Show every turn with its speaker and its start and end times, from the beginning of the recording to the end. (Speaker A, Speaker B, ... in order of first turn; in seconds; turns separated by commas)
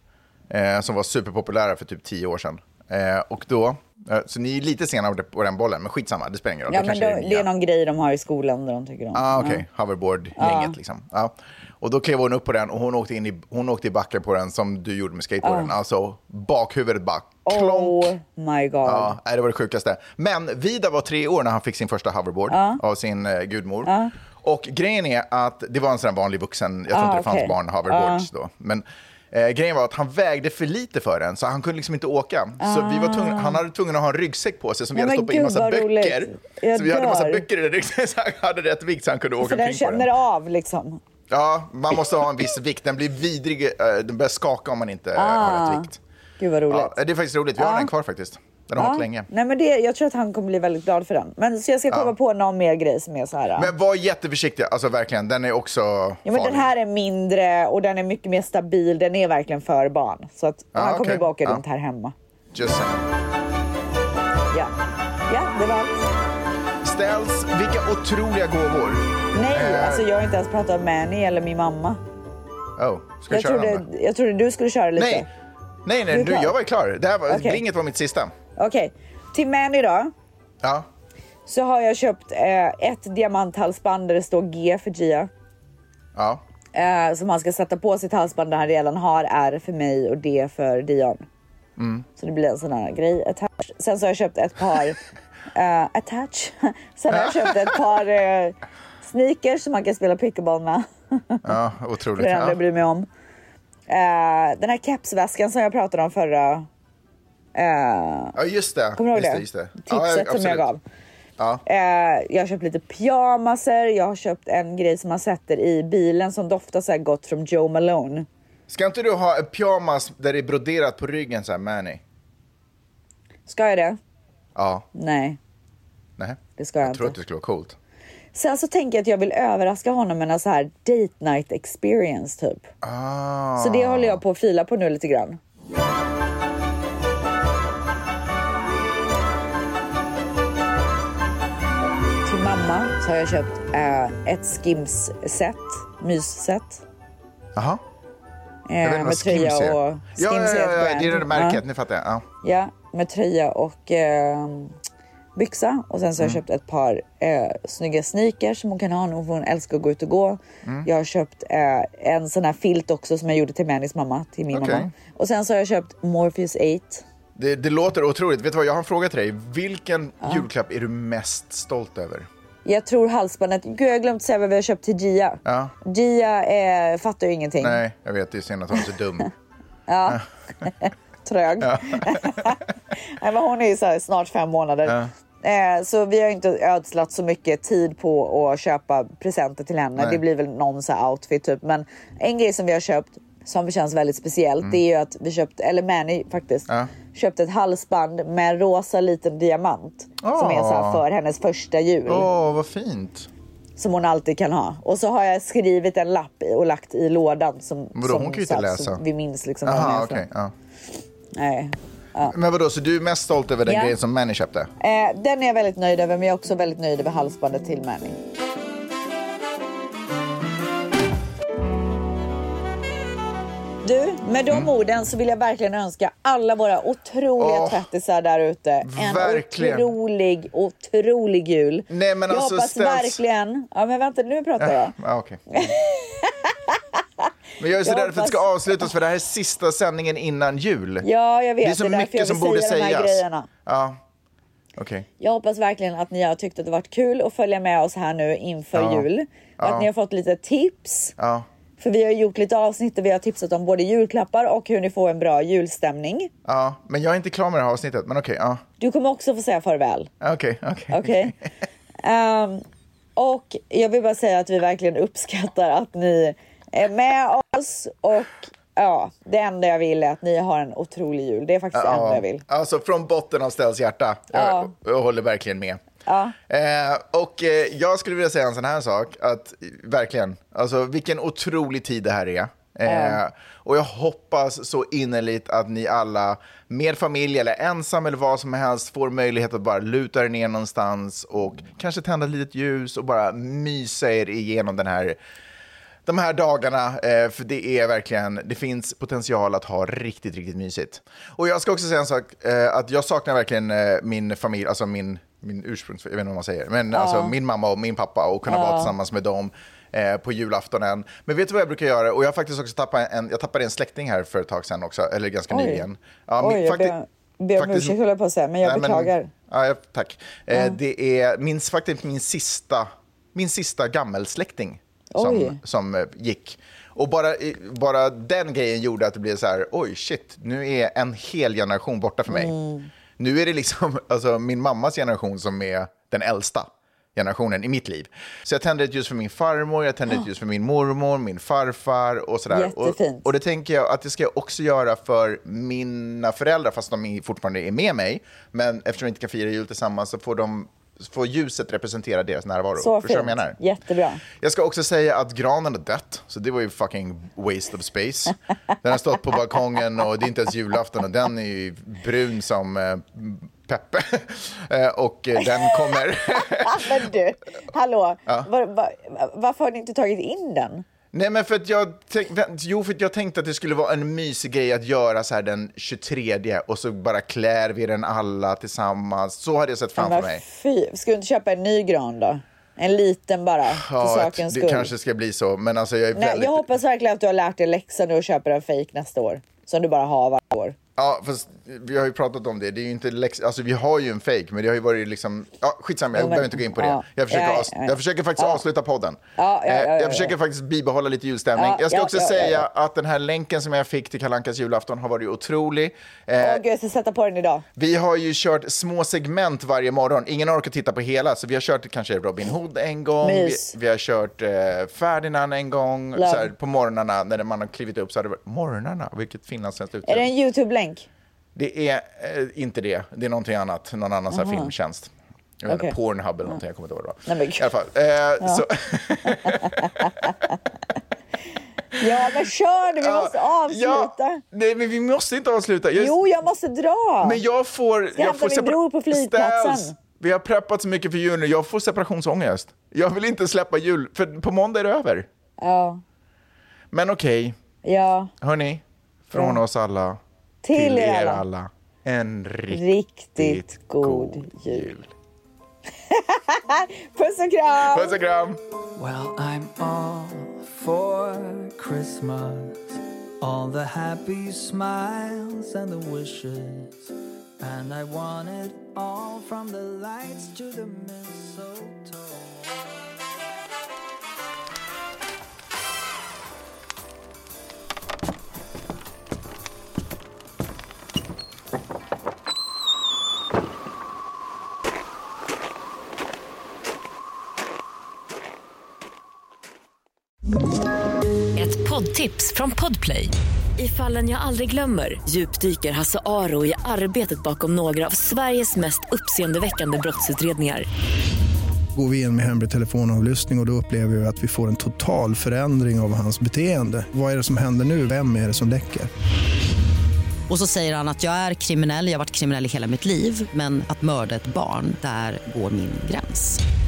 Speaker A: 0.5-7.5, Speaker B: 6.7-9.6, Speaker A: 9.1-18.1, Speaker B: 10.4-10.8, Speaker B: 15.4-15.7, Speaker B: 17.4-19.1, Speaker A: 18.8-40.1, Speaker B: 22.5-22.8, Speaker B: 23.8-24.1, Speaker B: 26.9-28.3, Speaker B: 32.6-33.6, Speaker B: 34.9-37.4, Speaker B: 39.4-41.0, Speaker A: 41.3-46.0, Speaker B: 45.1-47.0, Speaker A: 46.7-49.3, Speaker B: 47.6-47.9, Speaker B: 48.8-53.7, Speaker A: 53.6-56.7, Speaker B: 56.2-62.1, Speaker A: 60.7-61.6, Speaker A: 62.5-63.1, Speaker B: 65.3-66.1, Speaker A: 66.8-70.0, Speaker B: 69.3-72.0, Speaker A: 72.8-73.8, Speaker B: 73.3-75.3, Speaker A: 75.0-75.2, Speaker A: 75.8-78.3, Speaker B: 76.1-76.5, Speaker B: 77.3-77.6, Speaker B: 78.5-80.1, Speaker B: 81.5-85.3, Speaker A: 86.1-86.4, Speaker B: 86.7-91.2, Speaker A: 91.8-92.0, Speaker B: 92.2-95.0, Speaker B: 95.5-101.5, Speaker A: 97.1-97.8, Speaker A: 101.4-102.6, Speaker B: 102.2-103.1, Speaker B: 103.9-106.7, Speaker B: 107.5-108.4, Speaker A: 108.3-110.7, Speaker B: 109.0-110.8, Speaker A: 111.4-111.6, Speaker B: 111.6-118.3, Speaker A: 118.7-122.0, Speaker B: 123.5-124.0, Speaker A: 124.5-124.8, Speaker B: 124.9-125.4, Speaker A: 126.2-127.8, Speaker B: 126.6-127.2, Speaker B: 128.3-132.7, Speaker A: 132.8-134.2, Speaker B: 133.6-135.4, Speaker B: 142.2-146.8, Speaker A: 147.5-147.8, Speaker B: 148.7-151.6, Speaker A: 148.8-152.2, Speaker B: 152.4-154.7, Speaker B: 155.3-167.0, Speaker A: 164.5-164.9, Speaker A: 167.3-172.3, Speaker B: 172.6-177.8, Speaker A: 175.4-175.7, Speaker A: 177.6-179.3, Speaker B: 179.9-202.3, Speaker A: 181.6-182.5, Speaker A: 200.2-201.0, Speaker A: 202.1-203.3, Speaker B: 203.8-210.2, Speaker A: 207.9-209.0, Speaker A: 209.6-210.5, Speaker B: 211.3-212.3, Speaker A: 212.2-214.7, Speaker B: 213.7-214.0, Speaker B: 214.8-218.2, Speaker B: 223.8-234.9, Speaker A: 227.4-227.9, Speaker A: 228.8-229.9, Speaker A: 231.9-233.2, Speaker A: 234.6-235.4, Speaker B: 235.5-236.8, Speaker A: 237.6-241.1, Speaker B: 237.8-238.9, Speaker B: 241.0-243.5, Speaker A: 241.6-244.0, Speaker A: 244.8-245.1, Speaker B: 245.2-251.1, Speaker A: 248.7-249.1, Speaker A: 249.6-249.9, Speaker A: 251.2-251.5, Speaker B: 251.8-256.3, Speaker A: 256.4-258.6, Speaker B: 258.8-260.1, Speaker A: 260.2-261.4, Speaker B: 260.9-261.3, Speaker B: 262.0-262.6, Speaker B: 263.1-272.4, Speaker A: 271.7-275.8, Speaker B: 274.3-274.7, Speaker B: 276.1-276.4, Speaker A: 276.5-295.2, Speaker B: 282.9-283.2, Speaker A: 296.1-316.9, Speaker B: 306.9-307.3, Speaker B: 308.5-308.9, Speaker B: 315.5-315.8, Speaker B: 316.4-319.3, Speaker A: 317.5-318.0, Speaker A: 318.6-332.5, Speaker B: 320.5-320.8, Speaker B: 325.1-325.6, Speaker B: 332.3-332.9, Speaker A: 333.2-353.6, Speaker B: 342.5-343.3, Speaker B: 352.8-354.2, Speaker A: 354.3-366.9, Speaker B: 365.4-370.8, Speaker A: 371.1-380.4, Speaker B: 380.0-384.9, Speaker A: 383.7-386.7, Speaker B: 386.1-390.8, Speaker A: 391.0-406.6, Speaker B: 396.1-398.6, Speaker B: 399.4-400.3, Speaker B: 401.6-402.6, Speaker B: 406.4-407.6, Speaker A: 407.8-420.3, Speaker B: 413.2-413.7, Speaker B: 416.1-416.5, Speaker B: 420.0-421.1, Speaker A: 421.5-425.1, Speaker B: 424.3-424.7, Speaker A: 425.6-430.1, Speaker B: 425.7-425.9, Speaker B: 427.3-427.7, Speaker B: 429.2-430.5, Speaker B: 431.9-434.4, Speaker A: 433.0-436.2, Speaker B: 435.9-437.4, Speaker A: 437.2-445.3, Speaker B: 438.1-439.9, Speaker B: 445.6-446.0, Speaker A: 446.9-447.6, Speaker B: 447.8-448.3, Speaker A: 448.4-450.2, Speaker B: 449.3-449.6, Speaker B: 450.6-451.4, Speaker A: 450.7-455.1, Speaker B: 452.7-454.9, Speaker B: 456.1-458.2, Speaker A: 457.8-458.6, Speaker C: 458.9-473.1, Speaker D: 491.6-500.9, Speaker E: 501.9-509.1, Speaker F: 510.5-516.6